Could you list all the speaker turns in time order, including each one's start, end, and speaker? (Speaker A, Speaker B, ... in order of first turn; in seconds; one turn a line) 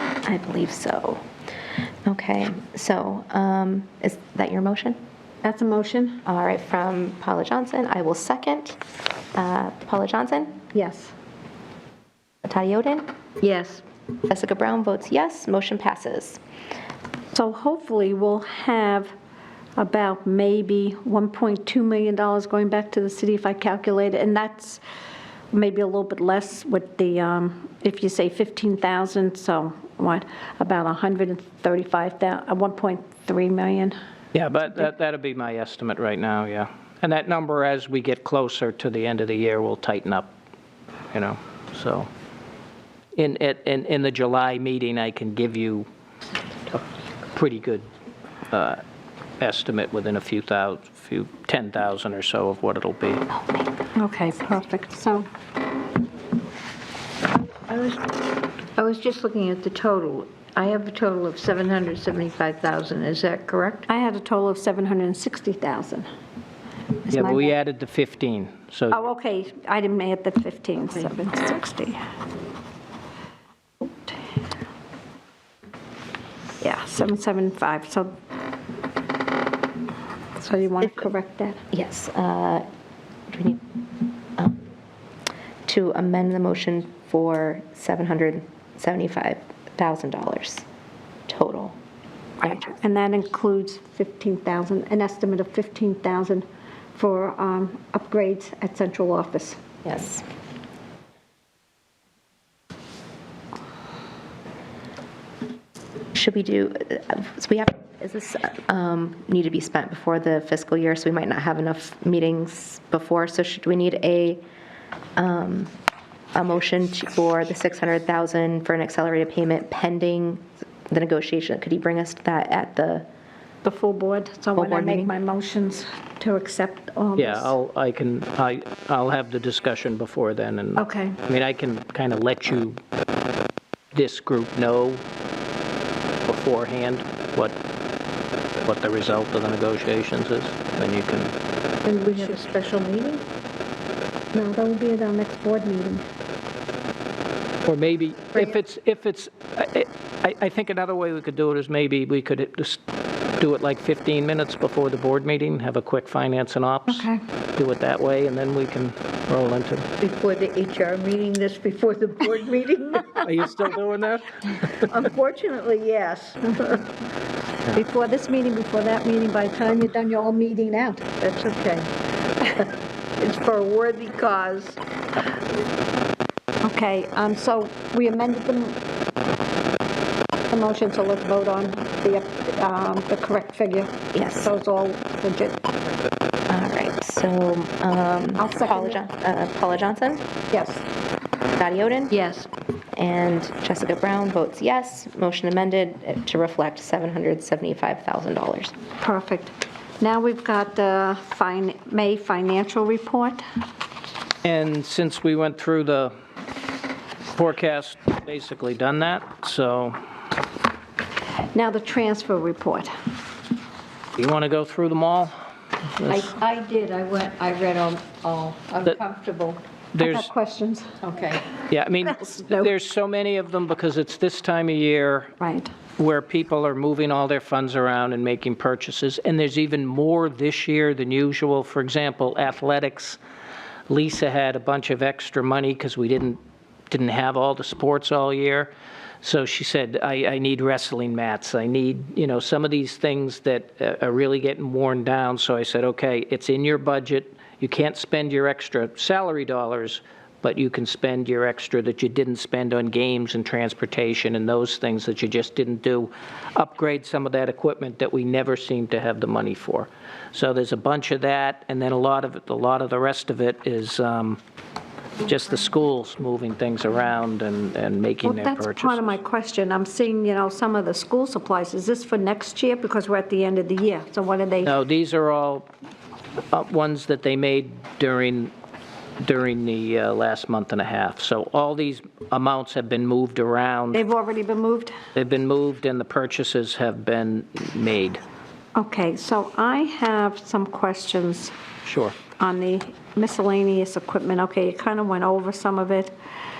Speaker A: 0.2-1.2
Speaker A: 2.0-5.0
Speaker B: 5.4-6.2
Speaker A: 6.3-8.8
Speaker A: 9.3-10.6
Speaker B: 10.7-11.1
Speaker A: 12.4-13.1
Speaker C: 13.4-13.8
Speaker A: 14.3-16.4
Speaker B: 17.3-19.1
Speaker B: 19.8-24.8
Speaker B: 25.5-34.0
Speaker D: 34.3-40.3
Speaker D: 41.1-42.1
Speaker D: 43.1-45.9
Speaker D: 47.3-47.9
Speaker D: 48.5-48.8
Speaker D: 49.4-53.3
Speaker B: 53.9-55.3
Speaker C: 57.6-58.1
Speaker C: 58.8-63.9
Speaker B: 63.9-66.1
Speaker D: 67.1-69.0
Speaker B: 68.9-72.0
Speaker B: 76.6-78.2
Speaker B: 80.4-81.6
Speaker A: 81.7-82.7
Speaker A: 83.3-83.6
Speaker A: 85.7-90.7
Speaker A: 91.3-91.8
Speaker B: 92.5-99.6
Speaker A: 99.8-100.2
Speaker A: 106.2-114.4
Speaker A: 115.2-115.7
Speaker A: 116.3-123.1
Speaker B: 123.6-127.6
Speaker A: 124.6-125.1
Speaker D: 127.2-132.8
Speaker B: 130.8-131.2
Speaker D: 133.9-135.1
Speaker D: 136.3-137.6
Speaker D: 138.6-141.3
Speaker C: 141.9-143.2
Speaker B: 144.3-146.1
Speaker D: 147.7-152.8
Speaker D: 153.4-159.9
Speaker B: 156.9-157.2
Speaker C: 160.0-163.3
Speaker D: 163.2-164.8
Speaker C: 164.8-166.9
Speaker B: 167.7-171.1
Speaker C: 171.2-171.9
Speaker C: 173.2-174.8
Speaker B: 176.6-178.8
Speaker B: 180.5-185.7
Speaker A: 184.1-184.5
Speaker A: 186.5-190.3
Speaker B: 188.4-189.0
Speaker B: 190.5-190.9
Speaker A: 191.6-192.2
Speaker C: 192.1-192.5
Speaker A: 193.0-198.7
Speaker B: 199.0-203.4
Speaker D: 204.4-206.1
Speaker D: 207.3-210.0
Speaker B: 211.5-212.9
Speaker D: 214.2-215.3
Speaker D: 215.9-216.3
Speaker C: 216.1-219.6
Speaker D: 220.0-220.3
Speaker B: 220.0-221.0
Speaker C: 221.0-221.5
Speaker D: 221.7-225.3
Speaker B: 225.4-225.7
Speaker D: 226.0-233.2
Speaker D: 233.9-236.4
Speaker D: 236.9-264.4
Speaker D: 265.2-269.1
Speaker B: 268.2-274.8
Speaker D: 274.6-275.7
Speaker D: 276.5-278.5
Speaker D: 279.2-284.0
Speaker B: 283.9-285.0
Speaker D: 285.1-288.2
Speaker B: 288.8-291.6
Speaker D: 291.9-292.2
Speaker B: 292.4-296.1